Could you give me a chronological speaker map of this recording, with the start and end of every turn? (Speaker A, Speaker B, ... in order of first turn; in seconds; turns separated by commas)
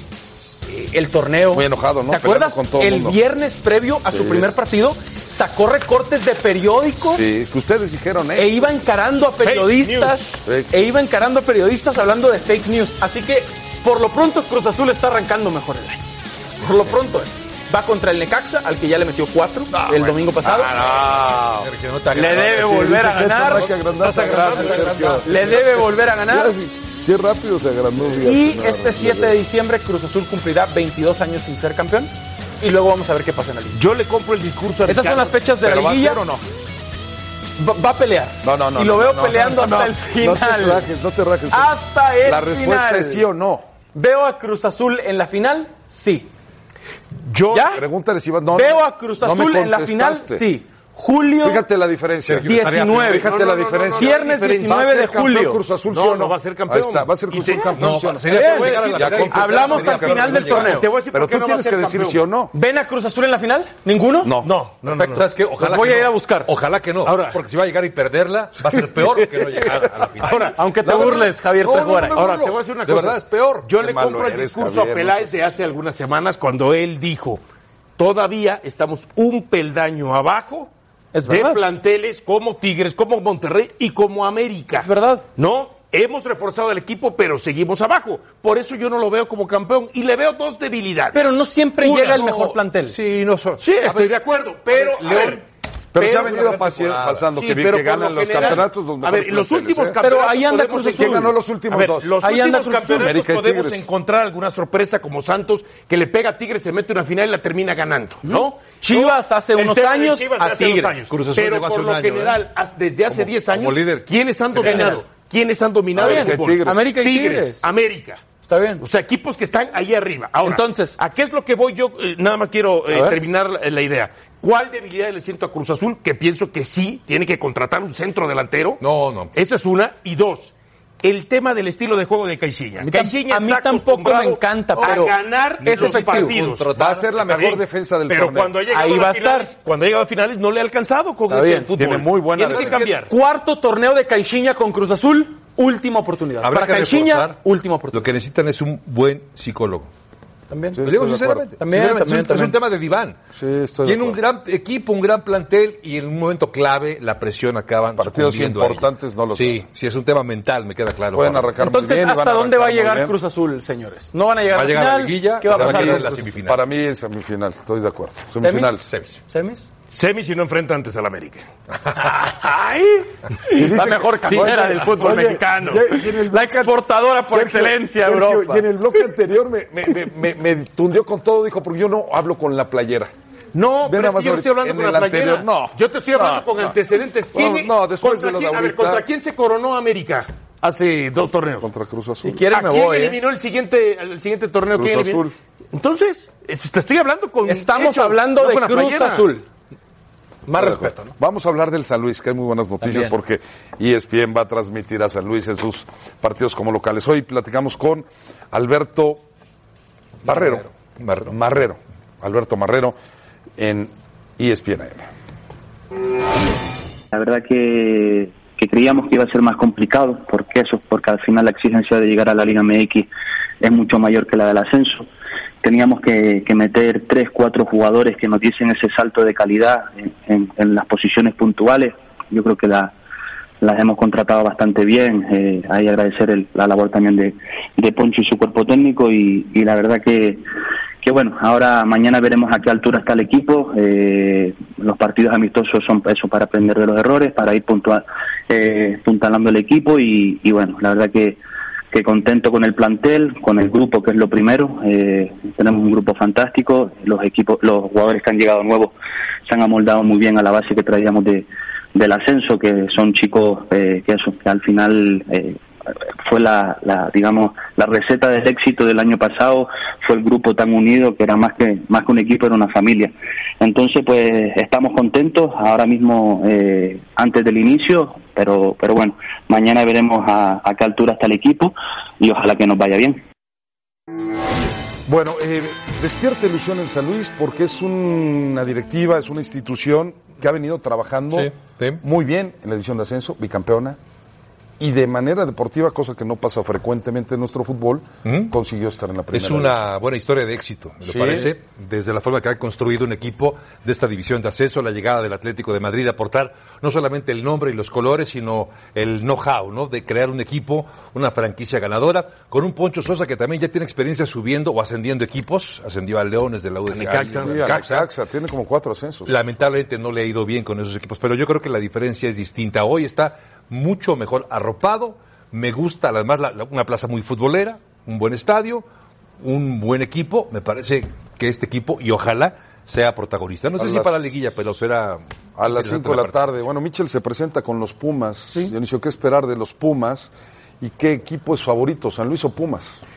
Speaker A: 0.7-7.2, Speaker B: 1.5-3.2, Speaker B: 4.1-4.5, Speaker B: 7.0-8.7, Speaker A: 8.3-16.0, Speaker C: 9.4-10.4, Speaker B: 10.4-10.7, Speaker A: 16.6-20.7, Speaker D: 19.7-22.5, Speaker B: 20.8-21.4, Speaker A: 22.1-26.5, Speaker B: 22.2-25.5, Speaker D: 24.0-25.7, Speaker C: 24.1-24.9, Speaker B: 26.2-29.4, Speaker A: 28.2-33.8, Speaker C: 33.7-35.4, Speaker A: 34.9-36.2, Speaker B: 35.6-36.4, Speaker A: 37.6-40.9, Speaker B: 38.4-43.7, Speaker A: 41.5-43.2, Speaker A: 43.9-46.3, Speaker C: 47.2-47.7, Speaker A: 47.5-47.8, Speaker B: 47.7-50.5, Speaker A: 48.5-51.6, Speaker B: 51.4-62.5, Speaker D: 52.2-53.2, Speaker A: 52.4-53.3, Speaker C: 53.2-54.8, Speaker A: 54.0-55.6, Speaker C: 55.9-62.2, Speaker D: 57.7-60.8, Speaker A: 58.3-60.9, Speaker A: 62.5-64.3, Speaker B: 64.2-64.5, Speaker C: 64.4-65.2, Speaker A: 64.9-66.5, Speaker D: 65.0-73.7, Speaker C: 67.0-67.4, Speaker C: 70.2-71.0, Speaker A: 70.2-72.2, Speaker C: 72.1-77.4, Speaker B: 73.7-75.5, Speaker C: 78.0-80.7, Speaker A: 81.1-81.6, Speaker C: 81.3-91.3, Speaker A: 84.8-85.2, Speaker A: 91.1-93.0, Speaker D: 91.8-94.2, Speaker C: 93.6-95.4, Speaker D: 94.7-95.4, Speaker B: 95.9-100.0, Speaker C: 96.0-96.5, Speaker D: 96.0-97.2, Speaker C: 97.3-118.2, Speaker A: 100.0-101.3, Speaker B: 100.9-102.2, Speaker A: 102.2-103.1, Speaker B: 102.9-103.8, Speaker A: 108.2-111.0, Speaker D: 111.1-112.4, Speaker D: 113.1-115.0, Speaker A: 114.6-115.0, Speaker B: 115.9-116.9, Speaker A: 116.0-117.6, Speaker A: 118.4-118.8, Speaker C: 118.8-128.8, Speaker A: 120.4-121.0, Speaker A: 122.9-123.2, Speaker D: 128.8-129.3, Speaker C: 129.3-143.1, Speaker A: 132.8-136.3, Speaker D: 135.7-137.1, Speaker B: 136.7-138.5, Speaker A: 138.7-139.5, Speaker A: 141.3-141.7, Speaker B: 141.8-142.8, Speaker A: 142.9-148.1, Speaker D: 146.4-147.4, Speaker D: 147.9-149.9, Speaker A: 150.5-150.8, Speaker B: 150.8-151.5, Speaker D: 150.8-153.2, Speaker A: 151.6-152.6, Speaker B: 153.3-154.2, Speaker D: 153.8-161.5, Speaker B: 158.0-159.6, Speaker B: 161.1-163.1, Speaker A: 161.6-166.1, Speaker D: 164.5-166.6, Speaker B: 165.5-168.9, Speaker A: 168.4-169.7, Speaker D: 168.9-169.2, Speaker C: 169.9-171.4, Speaker A: 171.9-178.8, Speaker B: 173.5-176.8, Speaker C: 175.1-175.8, Speaker B: 177.3-183.1, Speaker C: 183.5-191.7, Speaker B: 183.8-186.7, Speaker B: 187.3-189.1, Speaker B: 191.6-192.4, Speaker A: 192.2-193.2, Speaker C: 192.5-199.3, Speaker B: 194.7-195.3, Speaker A: 197.4-199.4, Speaker A: 200.5-201.1, Speaker B: 200.5-209.2, Speaker A: 202.8-203.1, Speaker B: 210.2-210.7, Speaker D: 211.0-211.3, Speaker B: 211.2-212.9, Speaker B: 213.6-215.1, Speaker E: 217.1-223.1, Speaker E: 223.6-225.1, Speaker E: 225.6-232.9, Speaker E: 233.6-240.4, Speaker E: 241.0-251.4, Speaker E: 251.9-258.9, Speaker E: 259.5-265.6, Speaker E: 266.2-283.2, Speaker B: 285.1-294.0, Speaker D: 291.3-292.0, Speaker B: 294.8-299.9, Speaker D: 298.2-298.5, Speaker D: 299.3-318.1, Speaker B: 301.0-301.5, Speaker C: 316.9-317.8, Speaker B: 317.4-319.4, Speaker D: 319.3-328.8, Speaker D: 329.4-336.6, Speaker B: 333.8-334.2, Speaker B: 335.6-343.0